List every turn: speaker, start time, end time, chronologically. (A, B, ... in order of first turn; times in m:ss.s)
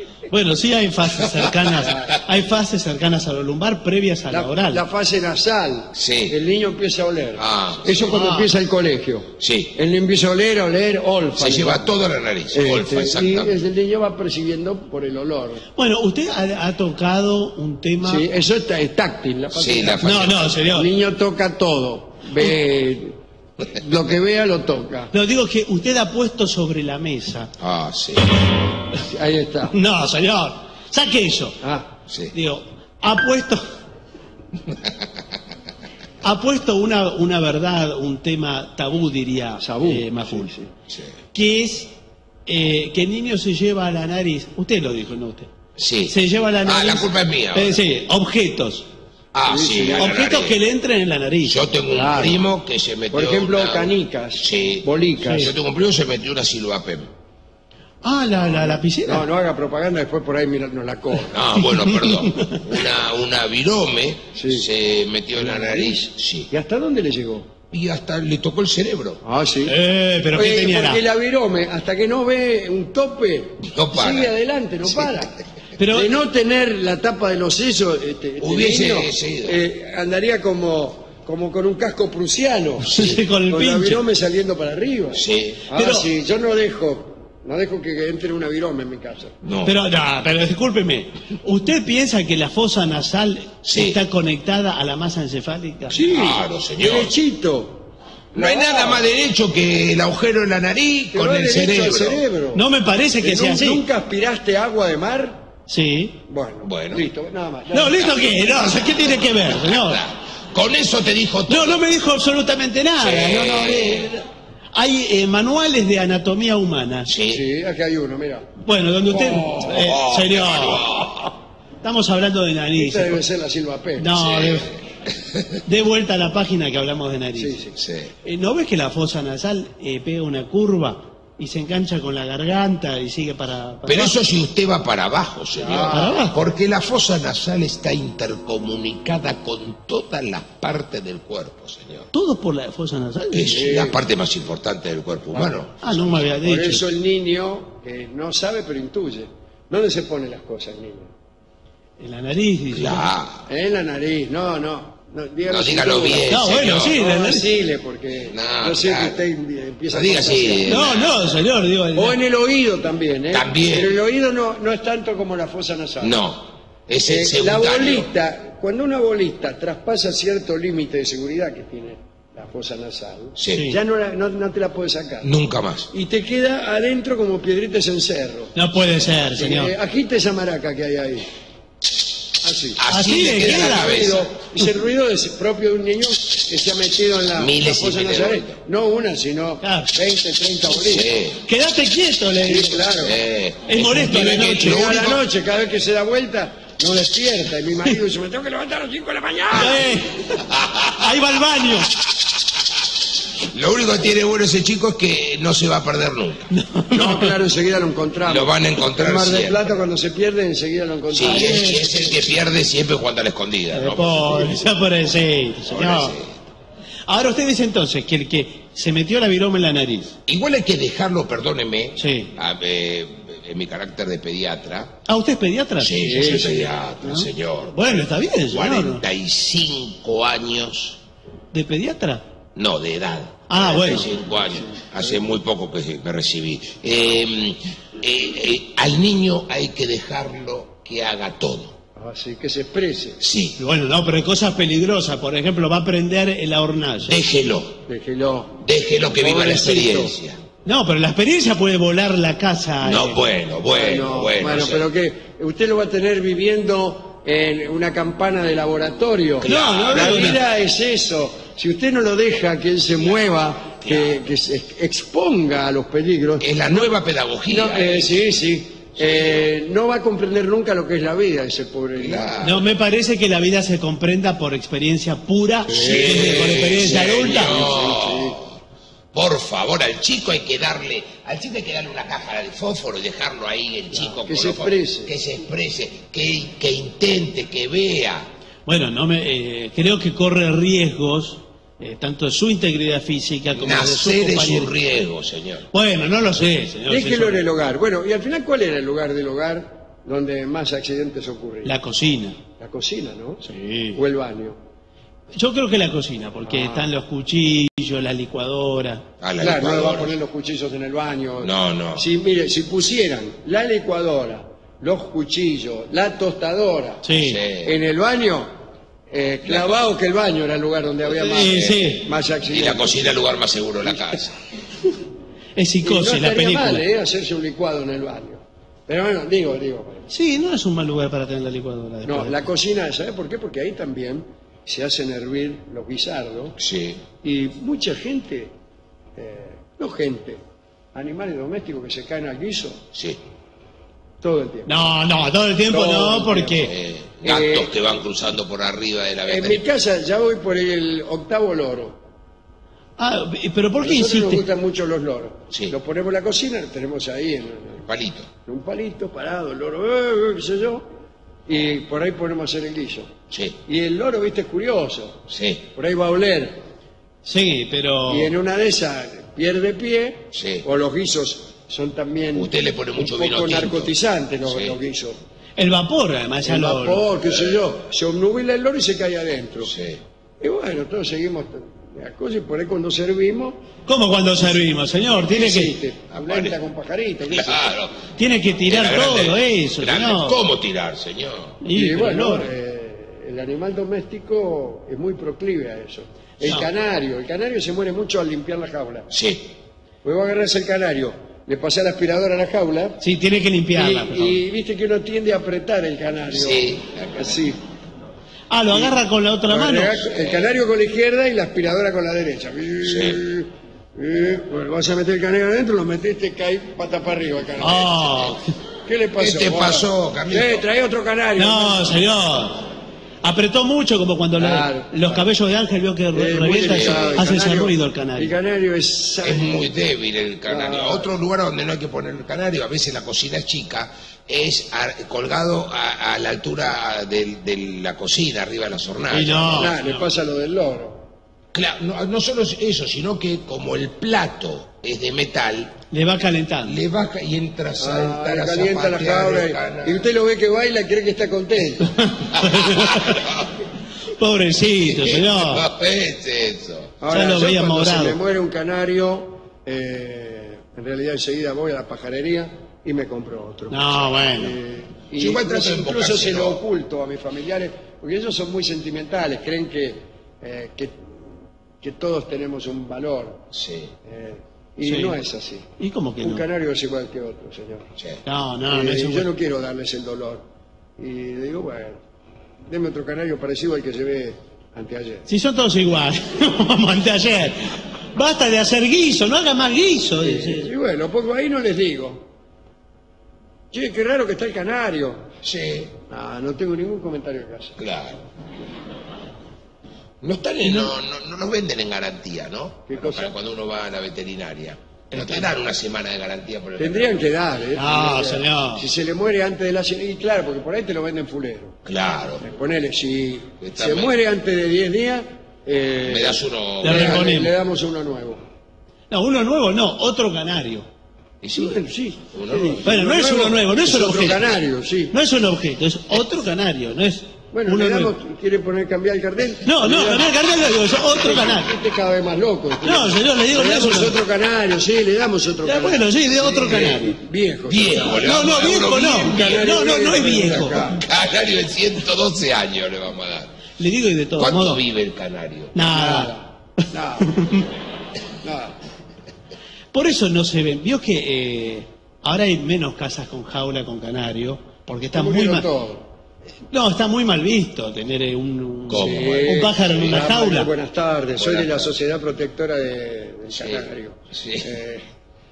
0:00.3-0:04.8 A
0:01.2-0:01.9 B
0:01.8-0:02.1 C
0:04.3-0:11.9 C
0:05.9-0:06.3 B
0:07.4-0:08.2 B
0:08.1-0:08.5 A
0:09.4-0:09.7 B
0:11.4-0:13.6 B
0:12.5-0:15.6 C
0:15.8-0:18.3 A
0:18.0-0:23.2 C
0:19.5-0:20.6 B
0:20.0-0:20.9 A
0:23.7-0:25.1 C
0:25.1-0:27.5 A
0:27.6-0:28.4 B
0:29.0-0:29.7 C
0:29.7-0:31.6 A
0:31.6-0:31.9 C
0:32.1-0:32.3 B
0:32.3-0:33.6 A
0:36.2-0:40.5 A
0:39.6-0:40.7 C
0:41.3-0:41.9 A
0:42.5-0:45.5 A
0:45.8-0:47.8 B
0:46.1-0:48.9 A
0:49.3-0:50.6 B
0:49.5-0:50.1 C
0:50.0-0:51.6 A
0:51.4-0:57.1 B
0:51.9-0:52.5 C
0:53.1-0:55.5 C
0:55.2-0:55.5 A
0:58.0-0:59.3 A
0:59.0-1:01.4 C
1:01.3-1:06.5 B
1:01.8-1:02.6 A
1:04.4-1:04.7 C
1:05.4-1:07.5 C
1:07.7-1:09.2 B
1:09.2-1:09.7 C
1:09.7-1:11.0 A
1:10.3-1:15.4 C
1:13.6-1:14.3 B
1:15.0-1:15.3 B
1:15.8-1:16.1 A
1:15.9-1:29.4 C
1:18.4-1:19.6 B
1:22.8-1:24.0 A
1:25.1-1:25.6 B
1:25.8-1:26.1 A
1:29.4-1:29.8 B
1:29.6-1:36.3 A
1:33.6-1:34.0 B
1:35.9-1:37.1 B
1:36.0-1:39.1 C
1:38.4-1:42.2 B
1:41.1-1:42.6 C
1:42.5-1:43.8 A
1:43.2-1:45.4 C
1:45.7-1:46.2 A
1:46.3-1:48.4 C
1:46.6-1:47.1 B
1:47.7-1:50.0 A
1:49.1-1:51.8 B
1:51.5-1:57.1 A
1:53.0-1:54.1 B
1:57.1-1:57.4 B
1:57.3-1:58.5 C
1:58.6-2:00.9 A
1:59.1-1:59.8 C
1:59.6-2:01.4 B
2:01.8-2:03.2 A
2:02.8-2:04.1 C
2:04.0-2:04.7 A
2:04.2-2:05.6 B
2:05.7-2:07.6 A
2:07.4-2:07.8 C
2:07.8-2:08.1 B
2:08.2-2:14.1 A
2:13.9-2:22.1 B
2:15.6-2:16.3 C
2:15.9-2:16.4 A
2:22.1-2:23.7 A
2:23.3-2:26.4 B
2:23.5-2:24.0 C
2:25.3-2:25.6 C
2:25.8-2:26.8 A
2:26.4-2:31.1 C
2:32.0-2:33.1 A
2:32.7-2:33.5 B
2:33.5-2:41.0 C
2:35.5-2:37.0 B
2:36.3-2:37.4 A
2:38.3-2:39.2 B
2:39.9-2:41.3 B
2:40.7-2:42.2 A
2:42.0-2:46.2 C
2:43.3-2:44.0 B
2:46.0-2:48.1 B
2:47.0-2:55.3 C
2:53.4-2:53.7 B
2:53.5-2:53.8 A
2:55.2-2:55.9 B
2:55.9-2:58.6 C
2:58.6-2:59.7 A
2:59.4-3:01.3 C
3:02.4-3:11.1 C
3:02.8-3:04.3 B
3:02.9-3:04.1 A
3:07.4-3:08.6 B
3:09.6-3:09.9 A
3:10.7-3:11.4 B
3:11.5-3:12.8 A
3:12.4-3:13.2 C
3:13.0-3:15.2 B
3:13.7-3:15.0 A
3:14.0-3:20.0 C
3:19.5-3:21.9 A
3:20.5-3:20.9 B
3:23.4-3:26.5 B
3:26.5-3:27.3 A
3:26.9-3:31.8 C
3:28.2-3:29.6 B
3:31.1-3:34.7 B
3:31.2-3:31.8 A
3:33.7-3:36.2 A
3:35.7-3:36.3 B
3:37.1-3:40.2 A
3:40.3-3:45.0 B
3:42.0-3:42.3 A
3:45.1-3:46.3 A
3:45.8-3:51.0 B
3:46.0-3:46.8 C
3:47.0-3:49.0 A
3:51.5-3:52.2 A
3:52.6-4:01.8 B
3:53.5-3:54.1 A
3:54.0-3:55.2 C
4:02.0-4:03.2 C
4:03.2-4:03.6 B
4:03.6-4:07.2 A
4:07.1-4:07.8 B
4:07.9-4:08.6 C
4:08.6-4:10.4 B
4:09.2-4:10.1 C
4:10.7-4:13.2 A
4:12.8-4:14.9 B
4:13.7-4:26.9 C
4:19.4-4:20.4 B
4:19.5-4:20.4 A
4:23.8-4:24.2 B
4:26.4-4:28.3 B
4:27.5-4:32.3 C
4:29.0-4:29.5 B
4:32.0-4:32.6 B
4:32.4-4:37.6 A
4:35.7-4:38.4 C
4:35.7-4:38.6 B
4:39.1-4:48.3 B
4:44.0-4:45.1 C
4:48.7-4:54.7 A
4:53.5-4:55.7 B
4:55.7-4:57.4 A
4:56.9-5:01.8 C
5:01.6-5:02.4 A
5:02.6-5:04.6 C
5:03.4-5:04.0 A
5:05.4-5:09.0 A
5:06.5-5:06.9 C
5:09.2-5:10.2 B
5:09.4-5:17.1 C
5:11.4-5:12.1 B
5:17.0-5:17.4 A
5:17.1-5:17.8 B
5:17.6-5:18.5 C
5:19.1-5:23.2 C
5:19.5-5:19.8 B
5:21.2-5:22.0 A
5:21.6-5:21.9 B
5:22.5-5:24.4 B
5:23.8-5:24.2 C
5:25.6-5:26.8 A
5:25.8-5:30.1 C
5:30.1-5:32.4 A
5:32.1-5:36.6 C
5:36.6-5:37.0 B
5:37.2-5:38.5 C
5:39.2-5:40.4 C
5:40.9-5:42.8 C
5:42.9-5:43.2 B
5:44.2-5:44.7 C
5:44.7-5:46.7 A
5:45.7-5:47.7 C
5:46.7-5:49.6 B
5:49.3-5:52.0 C
5:53.0-5:54.4 A
5:53.8-5:57.9 C
5:57.9-5:58.3 B
5:58.5-6:00.9 C
6:01.5-6:03.1 C
6:03.3-6:03.6 B
6:03.7-6:06.6 C
6:05.3-6:05.6 B
6:07.2-6:08.3 A
6:08.1-6:15.2 C
6:10.3-6:10.7 B
6:12.4-6:13.9 B
6:14.5-6:14.8 B
6:15.6-6:17.0 A
6:16.4-6:19.7 C
6:19.7-6:20.0 B
6:20.4-6:23.6 C
6:23.9-6:25.8 A
6:25.3-6:27.7 C
6:26.1-6:26.6 B
6:27.3-6:28.0 B
6:28.2-6:30.4 A
6:28.7-6:31.6 B
6:31.6-6:32.5 A
6:31.7-6:39.1 C
6:39.1-6:39.5 B
6:40.0-6:43.0 C
6:43.0-6:44.4 A
6:43.8-6:47.6 C
6:46.3-6:47.3 B
6:48.5-6:50.0 A
6:49.5-6:57.9 C
6:50.1-6:50.5 B
6:52.8-6:53.2 B
6:57.6-6:58.4 A
6:57.6-6:58.4 B
6:58.9-7:02.1 C
6:59.2-7:00.6 B
7:01.4-7:02.6 A
7:03.2-7:08.4 A
7:04.4-7:05.3 C
7:06.1-7:09.7 C
7:06.7-7:07.2 B
7:09.2-7:19.7 B
7:10.5-7:11.1 C
7:19.1-7:20.1 A
7:19.5-7:21.1 C
7:21.5-7:25.8 B
7:25.9-7:26.8 A
7:26.6-7:30.1 B
7:27.8-7:32.0 C
7:31.9-7:33.3 A
7:32.3-7:33.5 B
7:34.2-7:35.6 A
7:34.7-7:37.0 B
7:37.0-7:51.2 C
7:37.1-7:38.2 A
7:43.7-7:44.6 A
7:45.2-7:46.6 B
7:51.8-7:53.5 C
7:53.5-7:53.9 B
7:54.0-7:57.9 C
7:54.8-7:55.2 A
7:55.8-7:56.4 A
7:58.0-7:58.2 B
7:58.3-7:59.3 A
7:58.7-8:00.4 C
8:01.0-8:02.0 C
8:02.7-8:05.3 C
8:05.3-8:10.7 A
8:10.2-8:12.3 C
8:13.7-8:15.3 C
8:15.4-8:16.0 B
8:16.1-8:17.8 C
8:17.8-8:18.2 B
8:20.2-8:27.2 B
8:20.7-8:20.9 A
8:22.9-8:23.4 C
8:25.1-8:25.5 A
8:26.8-8:31.8 C
8:27.8-8:28.8 A
8:31.8-8:32.4 B
8:32.4-8:38.4 C
8:33.6-8:34.1 B
8:36.0-8:37.2 B
8:36.8-8:37.5 A
8:39.1-8:40.9 A
8:41.4-8:41.8 B
8:41.6-8:45.1 C
8:42.3-8:42.9 B
8:42.8-8:44.5 A
8:45.1-8:48.1 A
8:47.5-8:50.4 C
8:49.6-8:51.7 A
8:51.0-9:01.0 C
8:52.8-8:54.2 A
8:55.6-8:57.2 A
8:57.7-8:59.8 B
8:58.2-9:00.9 A
9:00.7-9:03.5 B
9:03.8-9:04.8 A
9:04.4-9:05.7 B
9:05.7-9:06.3 A
9:05.9-9:07.5 C
9:07.2-9:07.6 A
9:08.4-9:08.8 C
9:09.9-9:15.7 A
9:15.1-9:16.1 C
9:16.7-9:20.7 A
9:18.9-9:20.2 B
9:18.9-9:25.0 C
9:21.4-9:21.9 B
9:23.6-9:24.7 B